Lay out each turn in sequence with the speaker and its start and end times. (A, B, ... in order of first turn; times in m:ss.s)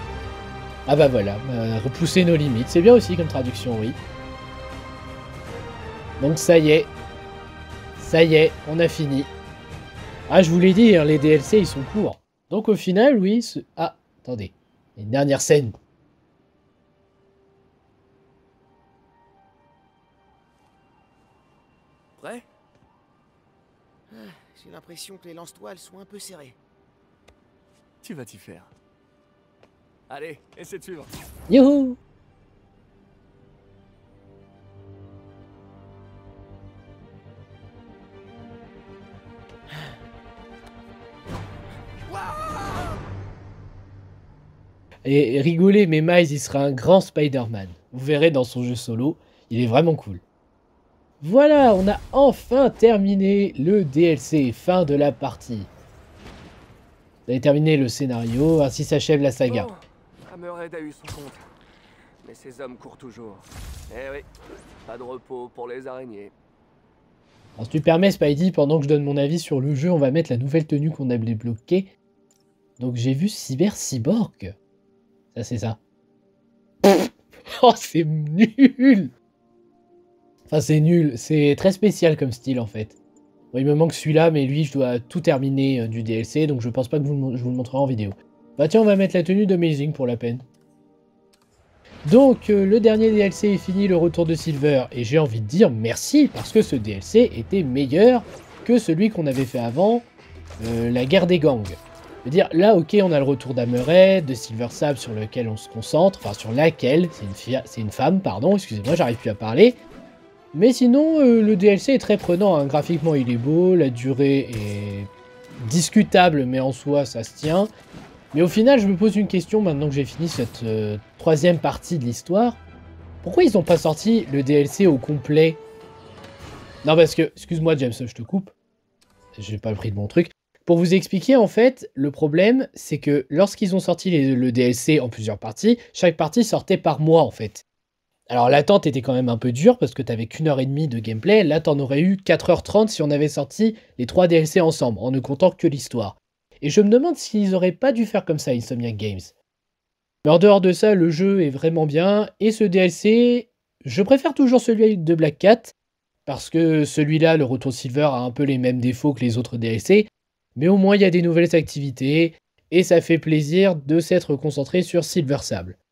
0:00.9-0:04.0 A
0:06.2-0:06.9 A
0:08.0-0:09.3 A
0:10.3-0:15.8 A
0:22.2-0:22.5 B
0:24.1-0:26.6 C
0:28.0-0:28.7 B
0:30.1-0:31.1 B
0:31.5-0:32.0 A
0:45.0-0:50.2 A
0:51.2-0:55.7 A
0:57.3-0:59.7 A
0:59.5-1:01.4 B
1:02.2-1:04.3 B
1:04.8-1:06.3 B
1:07.6-1:11.9 A
1:12.8-1:14.5 A
1:15.4-1:15.8 A
1:16.8-1:19.1 A
1:20.5-1:23.0 A
1:23.5-1:30.4 A
1:32.0-1:40.1 A
1:40.6-1:49.8 A
1:50.5-1:57.7 A
1:58.3-2:02.6 A
2:03.2-2:05.6 A
2:06.8-2:08.5 A
2:09.4-2:17.6 A
2:18.3-2:29.3 A
2:30.2-2:35.7 A
2:36.3-2:45.8 A